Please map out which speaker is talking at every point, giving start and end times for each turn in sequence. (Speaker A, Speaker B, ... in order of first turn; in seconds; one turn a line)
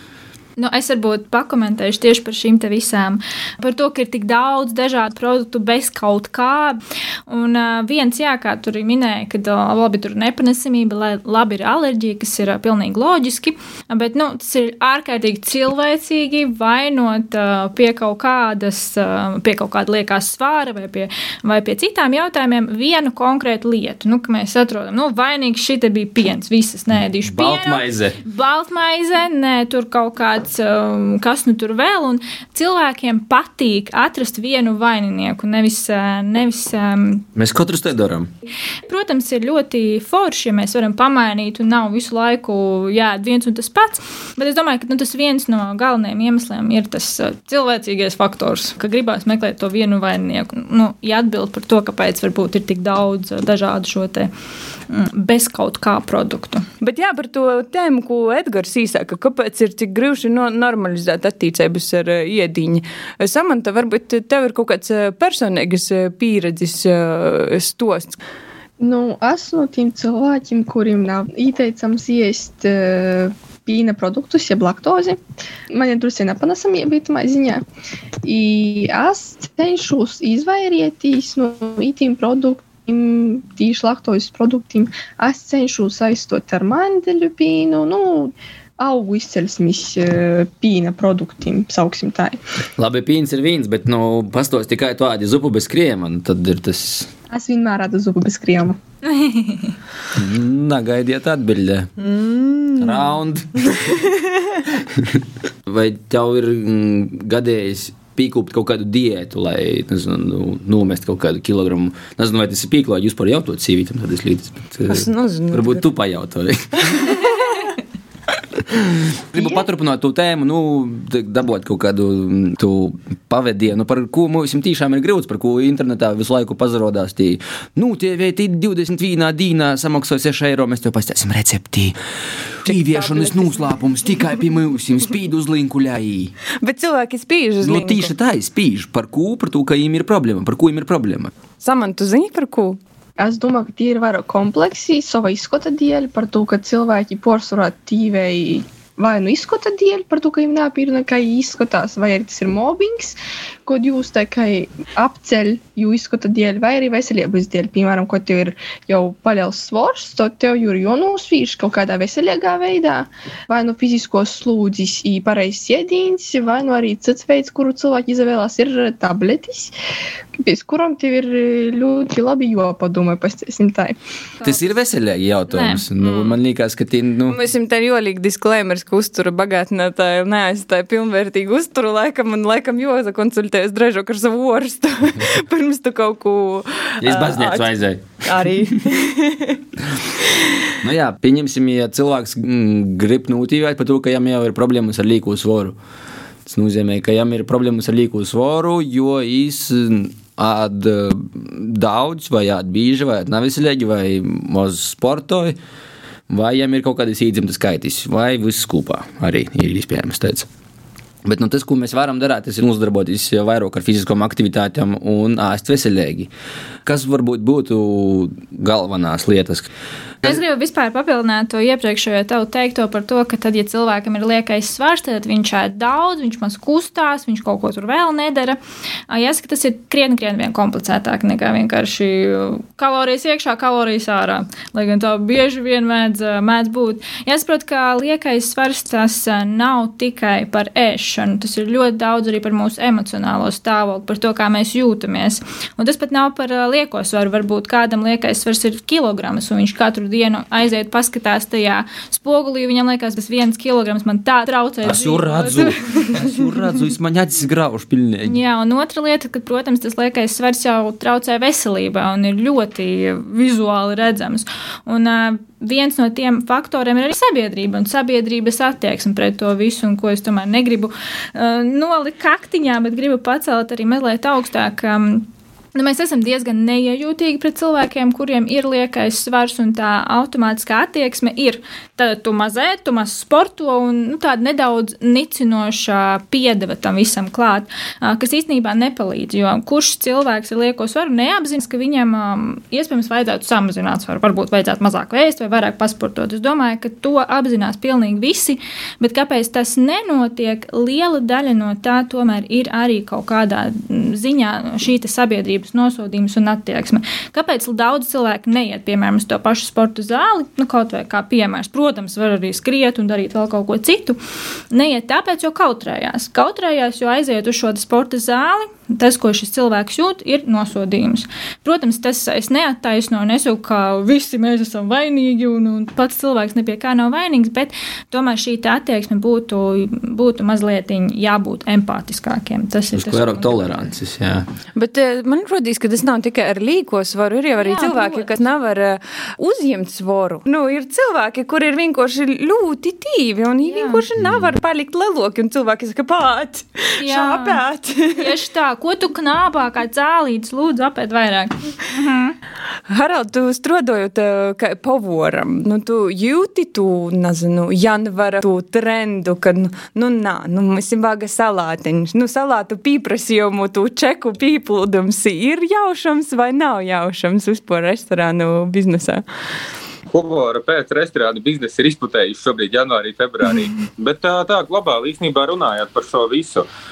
Speaker A: 0.6-37.2
Speaker B: 27.2-28.2
Speaker B: 37.4-38.3
Speaker A: 38.9-54.3
Speaker A: 54.9-56.6
Speaker C: 56.8-68.2
Speaker D: 68.8-75.2
Speaker D: 75.7-77.6
Speaker D: 78.2-92.4
Speaker B: 92.8-97.1
Speaker D: 97.3-98.8
Speaker A: 99.1-99.7
Speaker B: 100.1-101.9
Speaker C: 102.0-103.0
Speaker B: 102.8-104.0
Speaker B: 104.7-117.3
Speaker C: 114.9-115.8
Speaker C: 117.2-117.7
Speaker B: 118.5-131.9
Speaker B: 132.5-136.3
Speaker C: 132.7-133.6
Speaker C: 136.6-138.1
Speaker B: 137.6-141.3
Speaker C: 141.6-142.8
Speaker D: 143.2-169.7
Speaker D: 170.4-174.0
Speaker A: 174.4-174.7
Speaker B: 174.4-177.4
Speaker A: 175.5-176.3
Speaker C: 177.3-187.7
Speaker B: 187.0-188.8
Speaker C: 188.2-189.6
Speaker B: 190.8-195.8
Speaker B: 196.4-205.6
Speaker B: 206.3-210.5
Speaker B: 211.2-216.3
Speaker B: 216.8-219.7
Speaker A: 220.2-228.6
Speaker A: 229.1-256.1
Speaker B: 254.8-258.4
Speaker A: 258.2-314.2
Speaker A: 314.7-333.8
Speaker B: 332.9-334.4
Speaker C: 334.7-348.3
Speaker A: 337.6-338.3
Speaker A: 343.6-344.0
Speaker A: 347.0-347.6
Speaker A: 348.1-352.4
Speaker C: 352.9-369.2
Speaker E: 370.1-376.6